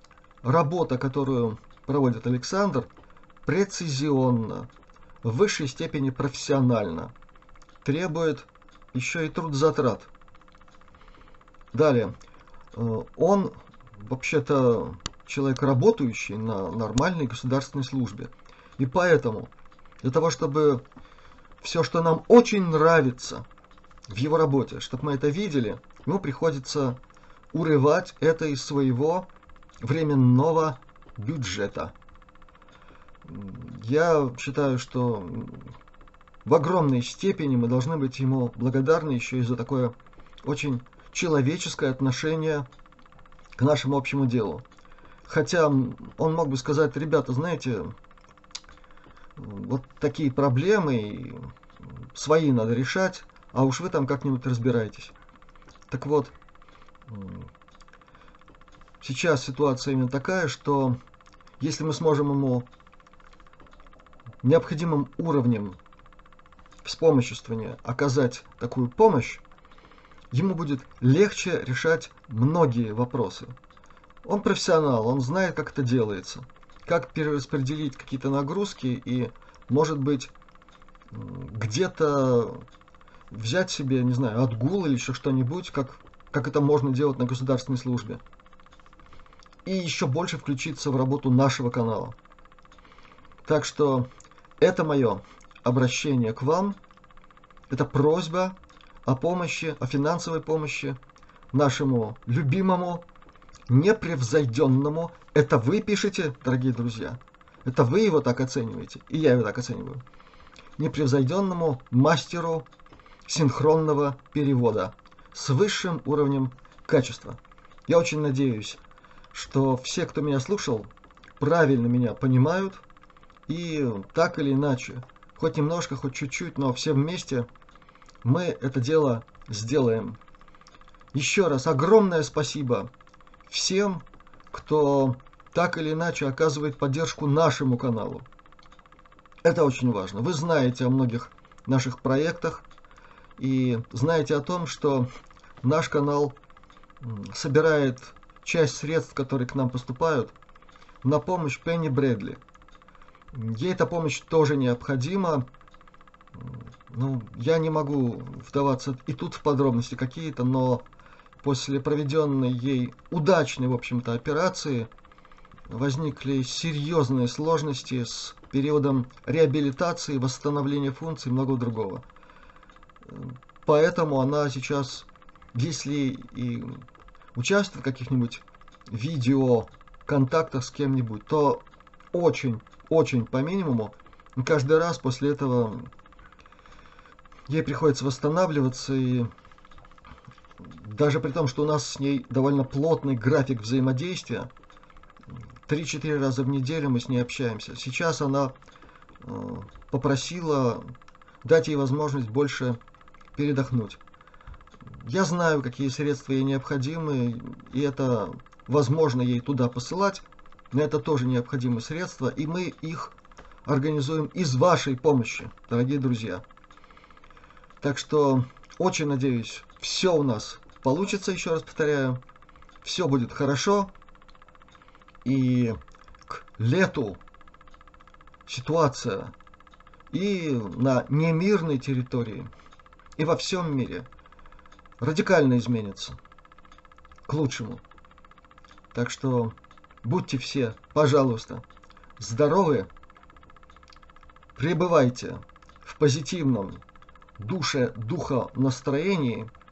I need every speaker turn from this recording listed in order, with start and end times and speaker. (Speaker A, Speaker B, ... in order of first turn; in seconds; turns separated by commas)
Speaker A: 0.4-2.9, Speaker A: 3.4-4.7, Speaker A: 5.2-7.1, Speaker A: 7.8-10.1, Speaker A: 11.7-12.1, Speaker A: 12.7-20.8, Speaker A: 21.6-23.4, Speaker A: 24.1-27.0, Speaker A: 27.5-29.3, Speaker A: 29.8-31.9, Speaker A: 33.2-35.8, Speaker A: 36.4-42.7, Speaker A: 43.5-44.6, Speaker A: 45.2-47.9, Speaker A: 49.4-51.5, Speaker A: 52.1-55.1, Speaker A: 55.9-56.3, Speaker A: 57.1-57.5, Speaker A: 59.0-61.0, Speaker A: 61.6-62.7, Speaker A: 64.4-65.8, Speaker A: 66.8-69.4, Speaker A: 70.3-73.5, Speaker A: 74.2-80.3, Speaker A: 81.1-82.6, Speaker A: 83.3-88.2, Speaker A: 89.6-92.2, Speaker A: 93.4-94.1, Speaker A: 94.6-96.8, Speaker A: 97.7-101.0, Speaker A: 101.5-103.0, Speaker A: 103.7-110.0, Speaker A: 110.8-112.7, Speaker A: 113.2-118.8, Speaker A: 119.3-122.8, Speaker A: 123.5-127.5, Speaker A: 128.2-130.2, Speaker A: 131.1-132.9, Speaker A: 133.5-138.3, Speaker A: 139.4-142.7, Speaker A: 143.4-145.1, Speaker A: 145.6-146.4, Speaker A: 147.0-150.3, Speaker A: 151.0-152.4, Speaker A: 153.3-155.5, Speaker A: 156.3-160.8, Speaker A: 161.4-164.9, Speaker A: 165.7-172.0, Speaker A: 173.1-176.8, Speaker A: 177.3-185.9, Speaker A: 187.5-189.3, Speaker A: 190.6-194.5, Speaker A: 195.7-198.5, Speaker A: 199.2-200.9, Speaker A: 201.4-202.8, Speaker A: 203.3-204.0, Speaker A: 204.8-216.4, Speaker A: 217.8-222.2, Speaker A: 222.8-223.9, Speaker A: 225.2-225.8, Speaker A: 226.3-227.2, Speaker A: 228.4-229.3, Speaker A: 230.1-232.5, Speaker A: 233.2-234.1, Speaker A: 235.0-236.2, Speaker A: 237.2-237.8, Speaker A: 238.9-241.6, Speaker A: 242.2-242.9, Speaker A: 244.6-246.8, Speaker A: 247.4-249.5